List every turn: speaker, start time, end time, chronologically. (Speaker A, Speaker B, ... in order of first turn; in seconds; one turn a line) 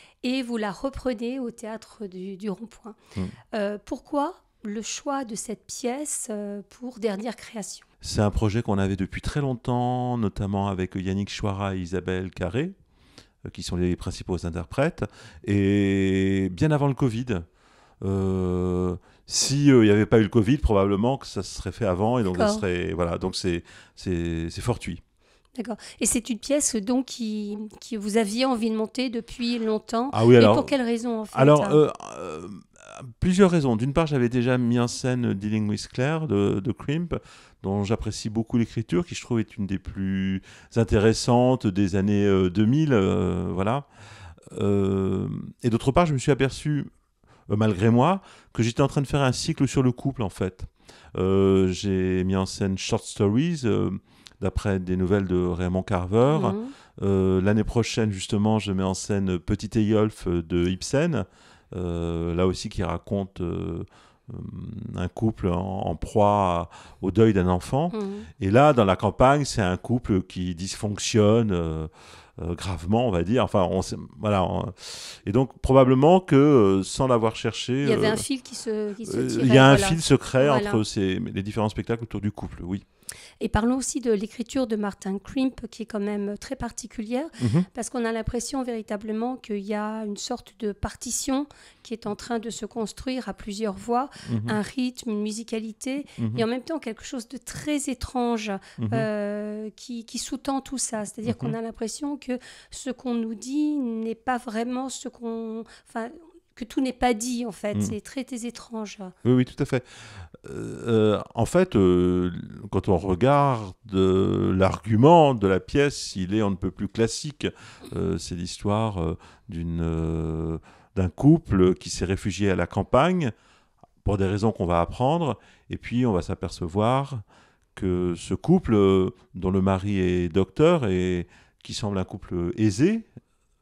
Speaker A: 0.2-3.0
Speaker A: 3.5-7.8
Speaker B: 8.0-12.7
Speaker B: 13.4-17.4
Speaker B: 18.0-25.0
Speaker A: 22.3-22.6
Speaker A: 25.6-31.8
Speaker B: 30.1-30.7
Speaker B: 31.3-43.9
Speaker B: 44.5-46.9
Speaker B: 47.5-78.2
Speaker A: 56.3-56.7
Speaker A: 67.9-68.3
Speaker A: 77.8-80.8
Speaker B: 79.0-82.8
Speaker A: 83.4-109.1
Speaker B: 87.4-87.7
Speaker B: 94.2-94.6
Speaker B: 96.2-96.4
Speaker B: 98.8-99.1
Speaker B: 101.2-101.5
Speaker B: 109.2-123.3
Speaker B: 124.0-127.2
Speaker B: 127.7-133.1